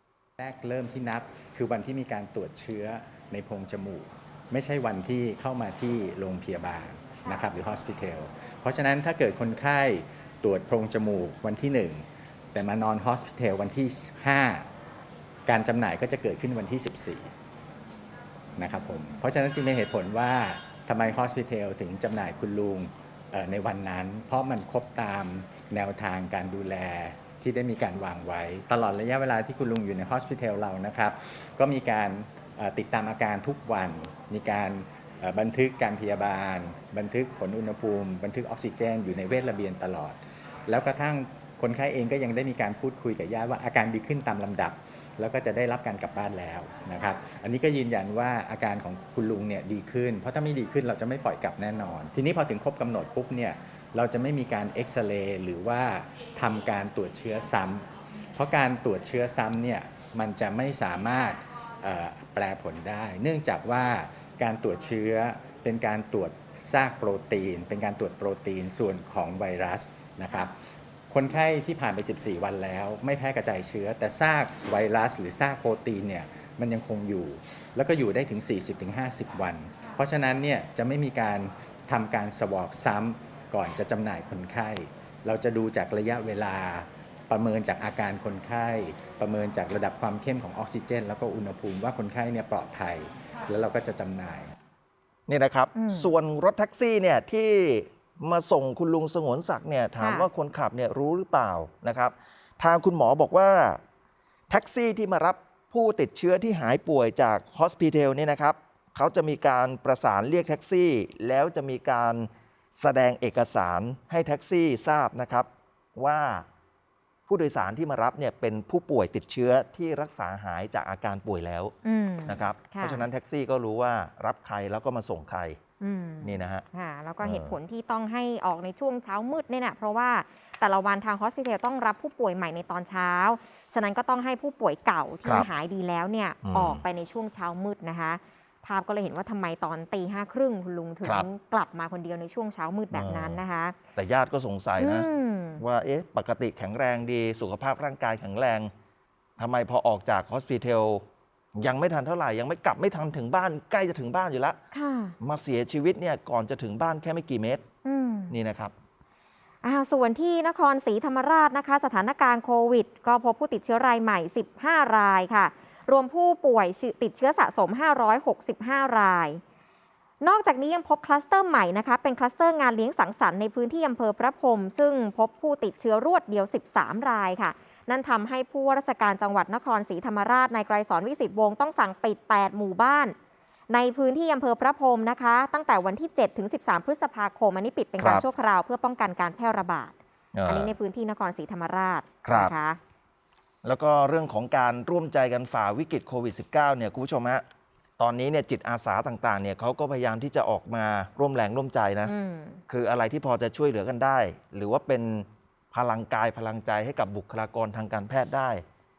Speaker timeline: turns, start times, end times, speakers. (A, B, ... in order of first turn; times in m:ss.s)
0:00.4-0:14.7 A
0:15.5-0:17.3 A
0:18.6-1:10.6 A
1:11.1-1:34.5 A
1:35.3-1:43.8 B
1:35.8-1:36.1 C
1:40.0-1:40.3 C
1:44.5-1:56.4 B
1:57.3-2:01.7 B
2:01.8-2:03.1 C
2:02.3-2:05.6 B
2:05.8-2:23.8 C
2:06.2-2:06.6 B
2:07.2-2:07.6 B
2:16.4-2:16.8 B
2:22.9-2:23.4 B
2:24.0-2:25.1 B
2:24.8-2:25.6 C
2:25.6-2:28.7 B
2:29.4-2:31.0 B
2:31.6-2:34.6 B
2:34.7-2:35.2 C
2:35.2-2:37.6 B
2:37.8-2:38.4 C
2:38.3-2:38.7 B
2:39.6-2:49.4 C
2:50.2-3:03.2 C
3:03.7-3:09.9 C
3:08.0-3:08.2 B
3:10.3-3:10.7 B
3:10.5-3:12.8 C
3:12.2-3:12.5 B
3:13.6-3:17.4 B
3:18.0-3:22.1 B
3:22.1-3:22.6 C
3:22.7-3:28.6 B